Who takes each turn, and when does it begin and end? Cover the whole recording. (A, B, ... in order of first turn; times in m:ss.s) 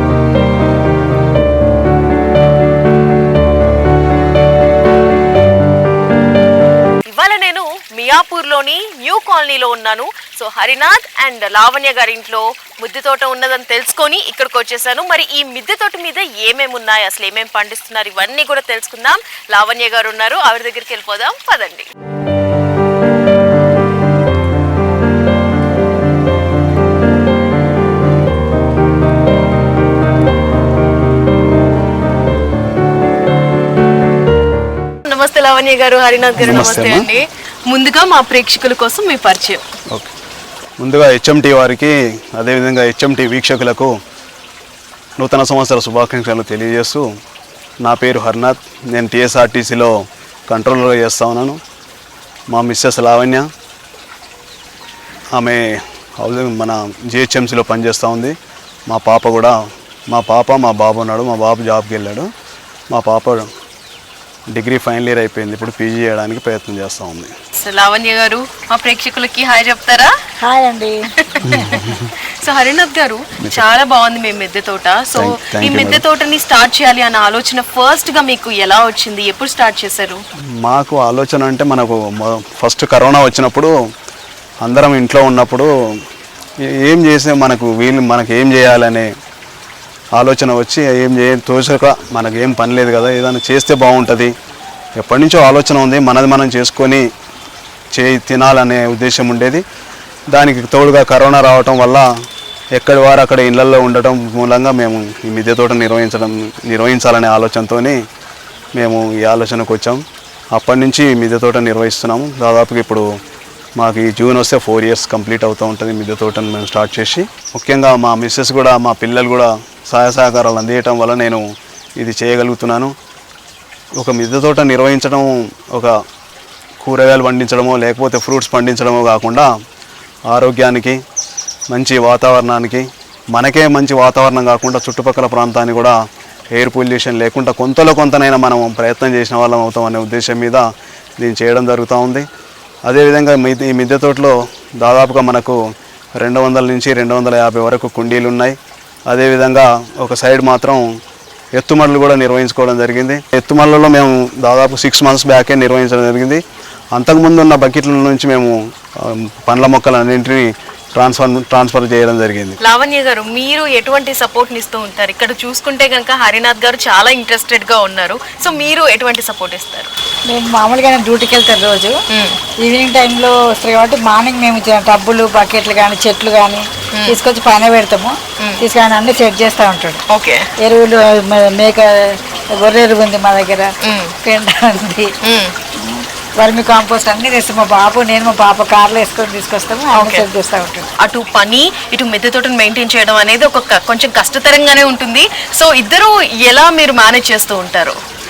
0:07.1-0:21.9 A
0:35.0-0:39.6 A
0:36.4-0:37.1 B
0:40.8-0:44.0 B
0:45.2-0:47.1 B
0:47.8-0:51.6 B
0:52.5-0:53.5 B
0:55.4-0:58.4 B
0:58.9-1:02.3 B
1:02.9-1:03.5 B
1:04.5-1:07.4 B
1:07.6-1:10.2 A
1:10.4-1:11.8 C
1:11.2-1:20.2 A
1:11.4-1:12.1 B
1:15.2-1:16.0 B
1:20.6-1:23.7 B
1:24.6-1:25.7 B
1:26.6-1:29.1 B
1:30.2-1:34.3 B
1:35.0-1:37.1 B
1:38.0-1:39.6 B
1:40.3-1:42.1 B
1:42.8-1:48.0 B
1:48.8-1:53.1 B
1:53.8-2:01.4 B
2:02.0-2:03.0 B
2:04.0-2:06.0 B
2:06.8-2:09.5 B
2:10.3-2:11.0 B
2:11.7-2:16.0 B
2:16.5-2:20.7 B
2:21.2-2:22.3 B
2:22.9-2:25.6 B
2:26.2-2:28.6 B
2:29.1-2:30.9 B
2:31.6-2:36.4 B
2:36.9-2:42.6 B
2:42.6-2:49.9 A
2:50.3-2:52.0 C
2:52.1-2:52.4 A
2:52.6-3:00.0 C
3:00.1-3:00.5 A
3:00.6-3:03.7 C
3:03.8-3:04.2 A
3:04.2-3:05.1 C
3:05.2-3:05.5 A
3:05.8-3:10.9 C
3:09.9-3:10.3 A
3:11.0-3:18.0 A